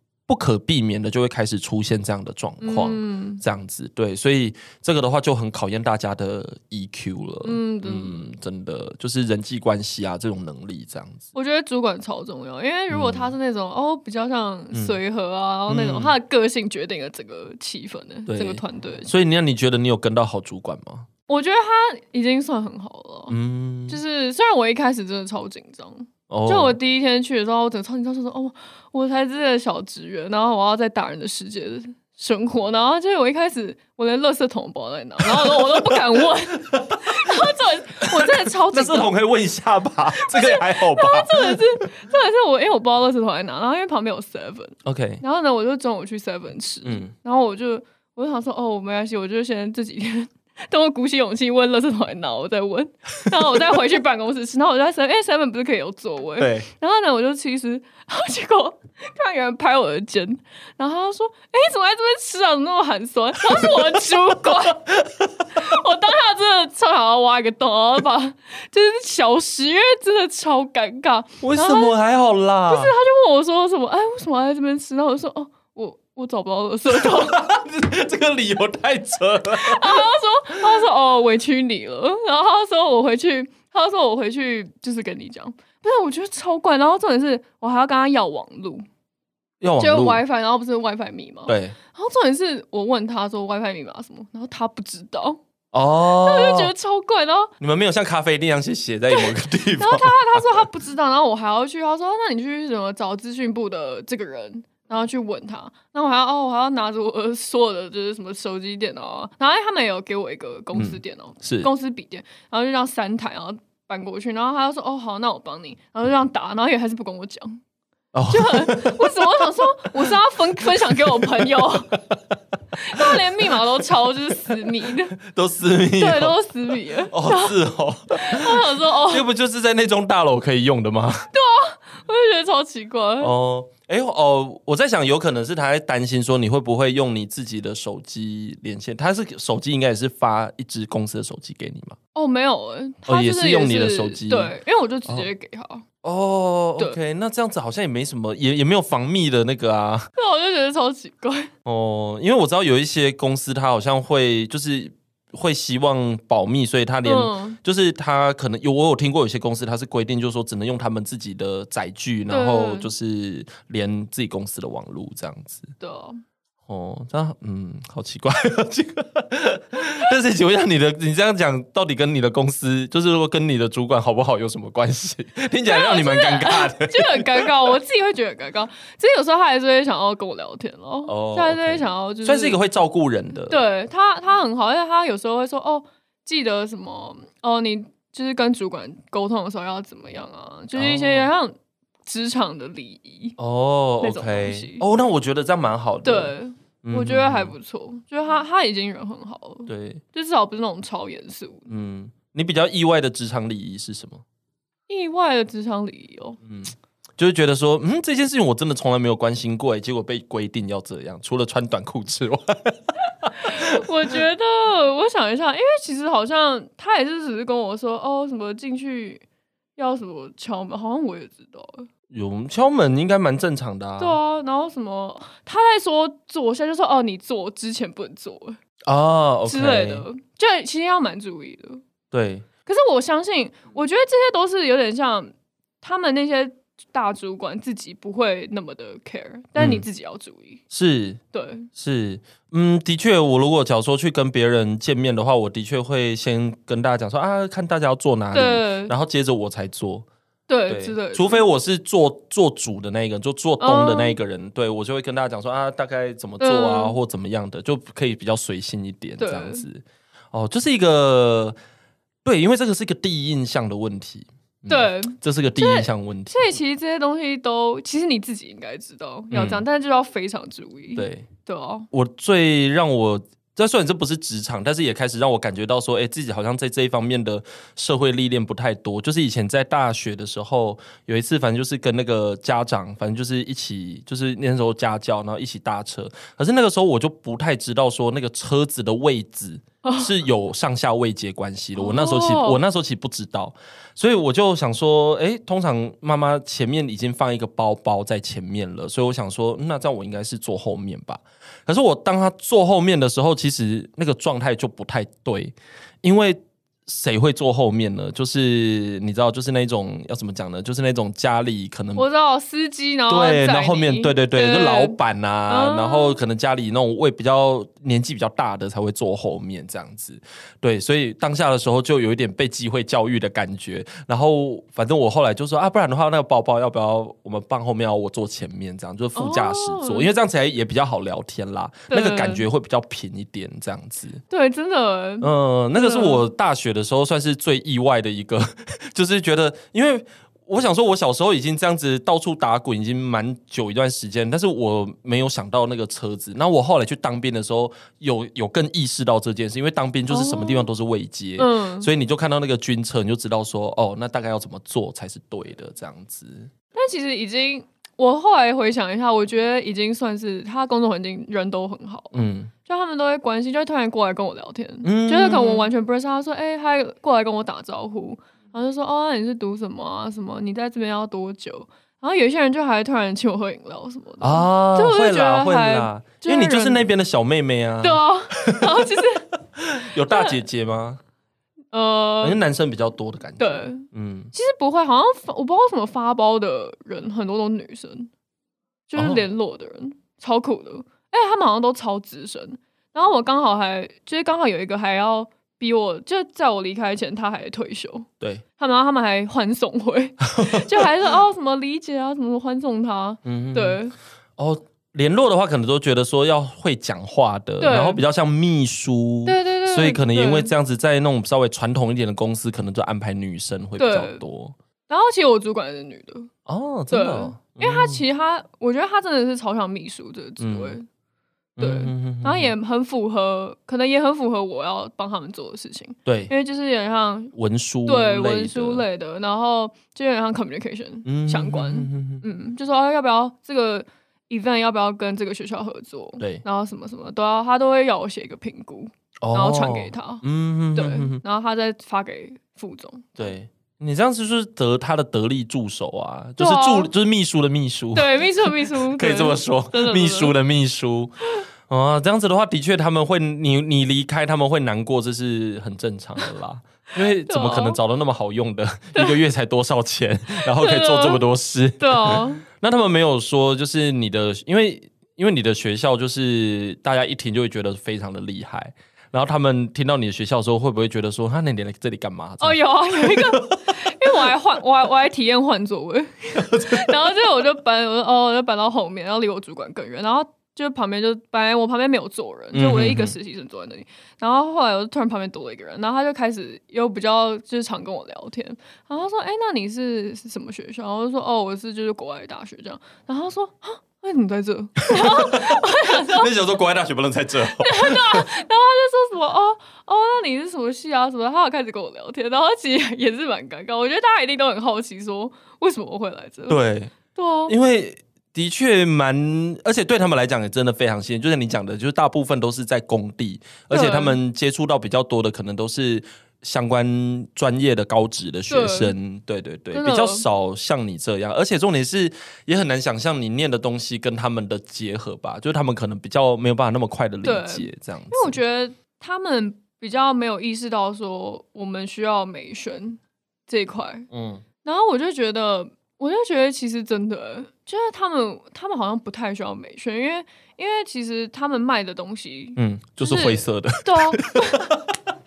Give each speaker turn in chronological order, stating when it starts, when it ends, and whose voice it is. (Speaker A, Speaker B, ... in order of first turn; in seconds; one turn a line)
Speaker A: 0.3-11.3
Speaker B: 2.6-3.4
Speaker B: 7.4-8.2
Speaker B: 11.3-19.1
Speaker A: 12.9-13.3
Speaker A: 14.7-15.0
Speaker A: 15.7-16.2
Speaker A: 18.3-21.1
Speaker B: 21.3-23.4
Speaker A: 23.3-24.0
Speaker B: 23.9-39.1
Speaker A: 26.3-26.8
Speaker A: 35.2-37.3
Speaker A: 38.0-41.6
Speaker B: 40.1-64.9
Speaker A: 44.8-45.2
Speaker A: 46.8-47.1
Speaker A: 56.4-56.7
Speaker A: 64.9-65.7
Speaker B: 65.5-71.9
Speaker A: 71.4-72.9
Speaker B: 72.7-77.4
Speaker A: 76.9-80.1
Speaker B: 79.6-88.8
Speaker A: 89.6-90.2
Speaker B: 89.8-95.4
Speaker A: 91.5-91.8
Speaker A: 95.7-96.7
Speaker B: 96.2-97.5
Speaker A: 97.6-100.7
Speaker B: 99.1-117.6
Speaker A: 110.7-111.7
Speaker A: 118.1-122.3
Speaker B: 118.3-121.9
Speaker B: 122.8-125.2
Speaker A: 122.9-123.2
Speaker A: 124.8-126.4
Speaker B: 126.0-127.5
Speaker A: 127.1-131.3
Speaker B: 128.1-129.2
Speaker B: 131.3-133.3
Speaker A: 133.2-142.0
Speaker B: 142.1-145.8
Speaker A: 143.1-144.5
Speaker A: 146.0-150.1
Speaker B: 150.2-151.5
Speaker A: 151.7-165.7
Speaker B: 157.0-157.6
Speaker B: 162.3-162.9
Speaker B: 165.8-166.2
Speaker A: 166.7-177.5
Speaker B: 175.7-182.6
Speaker A: 181.1-183.6
Speaker B: 183.5-193.4
Speaker A: 190.7-191.3
Speaker A: 193.4-197.5
Speaker B: 194.0-194.8
Speaker B: 196.0-201.7
Speaker A: 199.7-200.0
Speaker A: 201.7-204.2
Speaker B: 204.9-206.4
Speaker A: 206.4-214.2
Speaker B: 213.3-219.2
Speaker B: 219.8-221.9
Speaker A: 222.1-224.2
Speaker B: 224.0-228.6
Speaker A: 228.8-230.0
Speaker B: 229.5-231.8
Speaker A: 232.1-232.5
Speaker B: 232.7-240.6
Speaker A: 239.6-239.8
Speaker A: 240.7-241.2
Speaker B: 241.3-241.7
Speaker A: 241.7-250.1
Speaker B: 248.3-248.9
Speaker B: 250.5-251.5
Speaker A: 250.7-261.6
Speaker B: 253.6-254.2
Speaker B: 256.4-257.0
Speaker B: 259.2-259.6
Speaker A: 262.2-266.6
Speaker B: 264.7-271.9
Speaker A: 269.3-269.6
Speaker A: 270.9-271.3
Speaker A: 271.9-312.0
Speaker B: 289.8-290.1
Speaker B: 291.8-292.6
Speaker B: 311.9-315.0
Speaker A: 313.1-334.2
Speaker B: 315.5-316.2
Speaker B: 329.1-330.1
Speaker B: 331.9-332.4
Speaker B: 334.3-336.3
Speaker A: 335.2-356.5
Speaker B: 350.1-350.7
Speaker B: 351.4-351.9
Speaker B: 356.7-376.9
Speaker A: 362.1-362.5
Speaker A: 364.8-365.7
Speaker A: 374.2-381.0
Speaker B: 377.8-379.3
Speaker B: 380.1-380.4
Speaker B: 381.7-382.4
Speaker A: 382.2-384.3
Speaker B: 383.4-388.1
Speaker B: 388.9-403.9
Speaker A: 388.9-389.2
Speaker A: 400.4-400.9
Speaker A: 403.2-403.8
Speaker A: 404.4-414.5
Speaker B: 407.6-408.0
Speaker B: 409.2-410.5
Speaker B: 413.8-414.2
Speaker B: 414.9-416.3
Speaker A: 416.5-418.0
Speaker B: 416.9-420.9
Speaker A: 420.4-420.8
Speaker A: 421.6-422.5
Speaker B: 421.6-427.3
Speaker A: 426.1-426.3
Speaker A: 427.4-428.8
Speaker B: 427.9-443.3
Speaker A: 431.0-432.2
Speaker A: 439.2-441.2
Speaker A: 443.2-451.1
Speaker B: 446.4-446.9
Speaker B: 447.9-450.3
Speaker A: 451.7-473.7
Speaker B: 457.2-457.8
Speaker B: 458.9-459.2
Speaker B: 460.4-461.2
Speaker B: 461.8-462.4
Speaker B: 472.4-496.3
Speaker A: 476.4-477.1
Speaker A: 482.5-483.1
Speaker A: 494.9-498.2
Speaker B: 497.6-506.6
Speaker A: 506.5-506.9
Speaker B: 507.1-507.5
Speaker A: 507.5-528.4
Speaker B: 513.7-514.2
Speaker B: 518.5-518.9
Speaker B: 519.7-520.2
Speaker B: 527.2-534.1
Speaker A: 534.1-534.4
Speaker B: 534.6-544.7
Speaker A: 542.6-544.9